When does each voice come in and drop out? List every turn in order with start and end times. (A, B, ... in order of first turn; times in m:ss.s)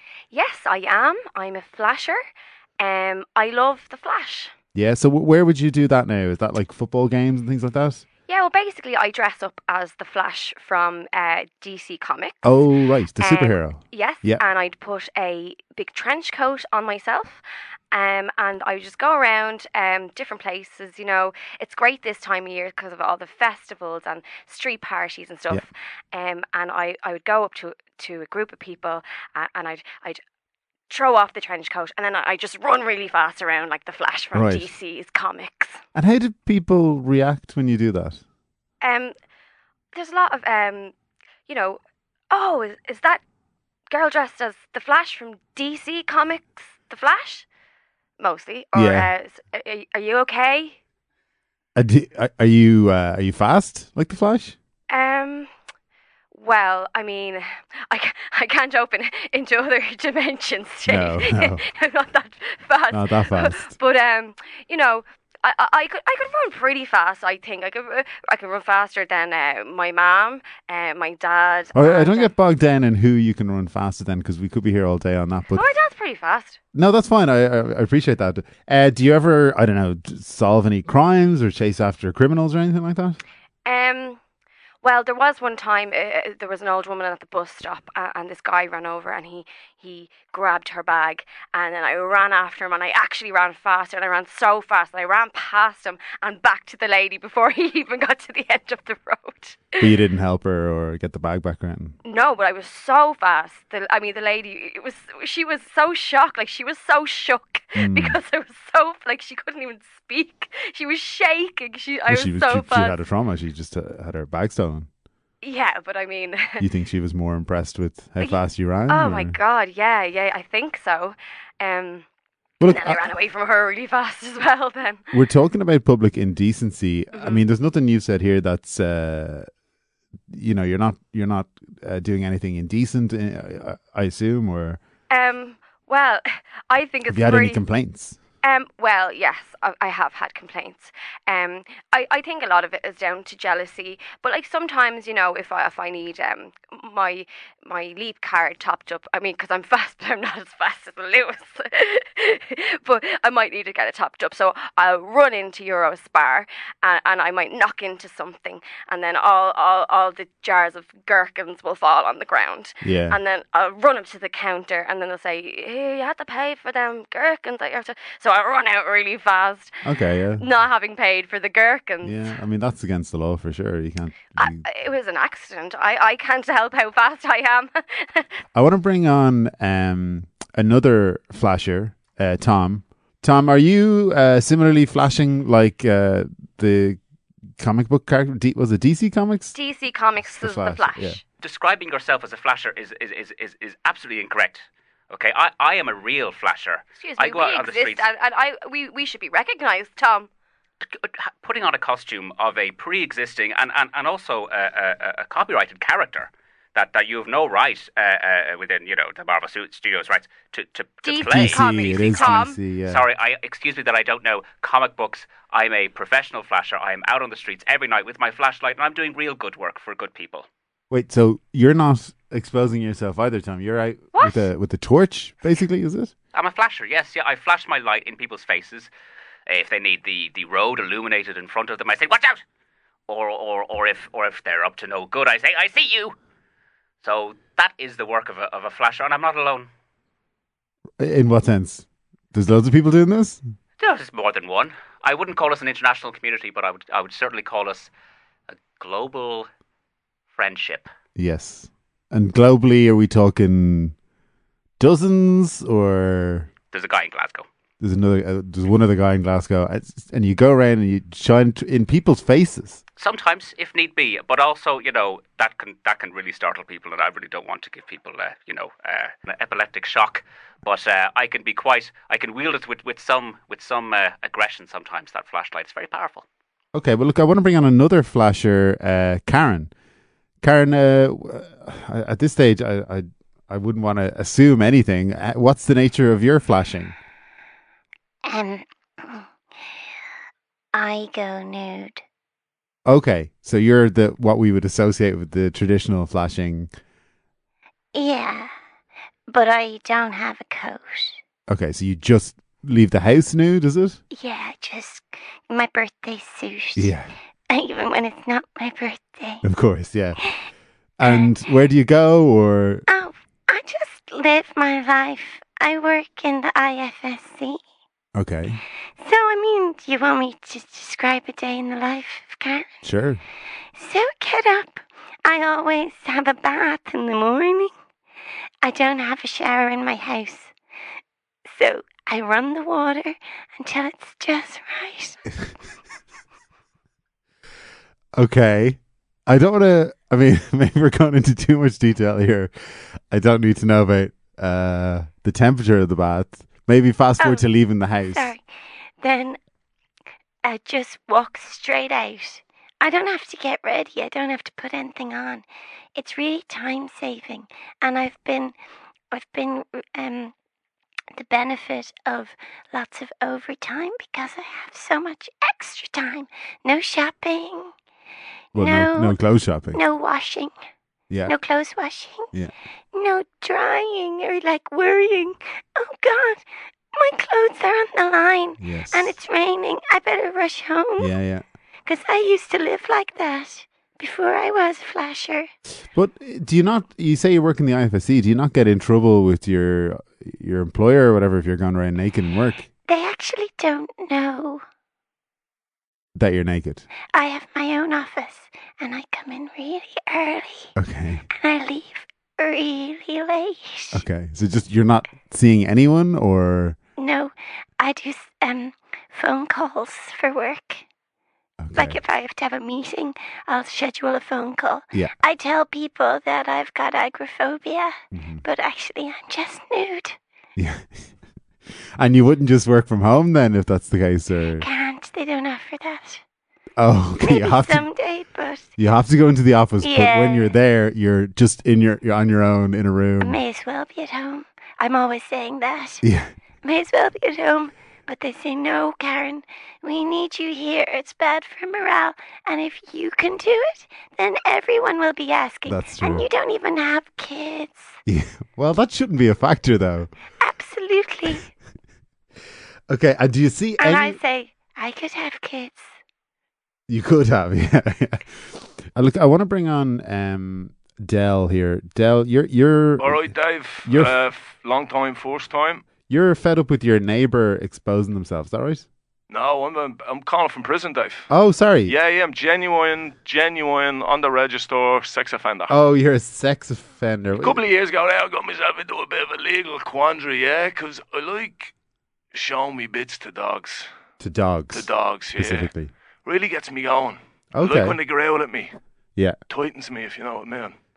0:00.3-0:02.2 A
0:02.8-0:04.5 A
0:04.7-0:08.0 B
0:08.3-0:12.6 A
0:12.4-0:14.4 B
0:13.2-0:30.2 A
0:30.9-0:35.8 A
0:34.3-0:34.7 B
0:35.9-0:38.2 B
0:38.8-0:39.1 A
0:39.9-0:40.9 A
0:41.5-0:43.2 A
0:43.9-0:47.4 A
0:48.2-0:50.8 A
0:48.7-0:49.1 B
0:51.7-0:54.6 B
0:54.9-0:55.5 A
0:56.3-1:12.3 A
1:00.9-1:01.6 B
1:02.9-1:03.7 B
1:11.7-1:15.6 B
1:15.5-1:16.6 A
1:16.7-1:23.2 B
1:23.6-1:24.2 A
1:24.8-1:39.9 A
1:39.8-1:42.0 B
1:42.0-1:53.0 A
1:47.8-1:48.2 B
1:52.1-1:54.9 B
1:55.4-1:56.6 A
1:56.6-1:59.4 B
1:58.2-2:02.0 A
2:02.6-2:03.1 B
2:02.6-2:05.0 A
2:05.1-2:09.5 B
2:07.1-2:07.4 A
2:10.3-2:14.8 B
2:15.1-2:17.6 A
2:17.1-2:18.2 B
2:18.4-2:49.8 A
2:42.8-2:43.2 B
2:49.8-2:50.4 B
2:50.4-2:52.4 A
2:52.0-2:54.6 B
2:54.4-2:58.4 A
2:58.5-3:07.0 B
3:07.6-3:09.6 B
3:09.5-3:11.2 A
3:10.2-3:11.2 B
3:11.4-3:18.1 C
3:17.0-3:20.3 A
3:20.8-3:40.5 C
3:31.0-3:32.6 A
3:31.2-3:33.0 B
3:40.9-3:46.1 B
3:44.1-3:44.4 A
3:46.3-3:48.9 C
3:49.5-3:52.4 C
3:53.1-3:56.2 C
3:57.0-3:59.7 C
4:01.0-4:03.4 B
4:03.8-4:07.9 C
4:08.5-4:09.5 C
4:10.3-4:10.9 C
4:11.2-4:13.9 B
4:14.8-4:16.5 B
4:16.7-4:17.5 C
4:17.8-4:22.8 B
4:23.0-4:36.2 C
4:36.7-4:39.7 B
4:40.4-4:46.9 B
4:48.2-4:49.8 D
4:50.7-4:52.0 D
4:52.8-4:56.7 B
4:57.9-4:58.5 D
4:59.3-5:01.2 D
5:01.5-5:04.0 B
5:04.1-5:06.9 D
5:06.8-5:07.1 B
5:07.5-5:09.4 D
5:09.4-5:10.2 B
5:11.0-5:12.8 B
5:11.0-5:11.3 D
5:12.9-5:17.6 D
5:18.1-5:18.6 B
5:19.0-5:22.8 D
5:22.8-5:23.2 B
5:23.8-5:27.7 D
5:28.6-5:30.5 D
5:31.4-5:35.3 D
5:38.1-5:42.5 B
5:43.1-5:48.3 B
5:47.2-5:47.4 D
5:48.0-5:49.4 D
5:50.4-5:58.6 D
5:59.1-6:00.3 D
6:01.1-6:07.7 D
6:08.5-6:09.2 D
6:08.5-6:09.8 B
6:09.7-6:10.5 D
6:11.3-6:12.3 D
6:12.9-6:21.1 D
6:18.6-6:19.1 B
6:21.0-6:21.4 B
6:21.8-6:25.5 D
6:25.9-6:32.7 B
6:32.9-6:34.6 D
6:36.1-6:36.9 B
6:37.1-6:40.7 D
6:40.8-6:41.2 B
6:41.3-6:44.0 D
6:43.9-6:46.8 B
6:47.0-6:50.8 D
6:51.6-6:52.0 B
6:51.8-7:00.2 D
6:58.1-6:58.4 B
7:00.6-7:00.9 B
7:02.0-7:04.7 B
7:04.6-7:06.2 D
7:06.8-7:07.9 B
7:07.2-7:08.7 D
7:08.8-7:13.4 B
7:09.8-7:10.5 D
7:13.2-7:16.0 D
7:16.0-7:16.3 B
7:16.6-7:28.0 D
7:25.7-7:26.3 B
7:28.0-7:30.1 B
7:30.4-7:31.5 D
7:32.9-7:34.2 B
7:33.8-7:35.9 D
7:36.9-7:43.3 B
7:43.0-7:45.8 E
7:43.8-7:44.2 B
7:46.1-7:48.8 B
7:49.3-7:51.3 E
7:51.3-7:51.9 B
7:51.8-7:55.8 E
7:55.7-7:57.6 B
7:57.4-8:01.7 E
8:02.3-8:03.9 E
8:04.2-8:05.9 B
8:04.7-8:05.7 E
8:06.2-8:08.8 E
8:07.5-8:08.0 B
8:09.5-8:10.8 E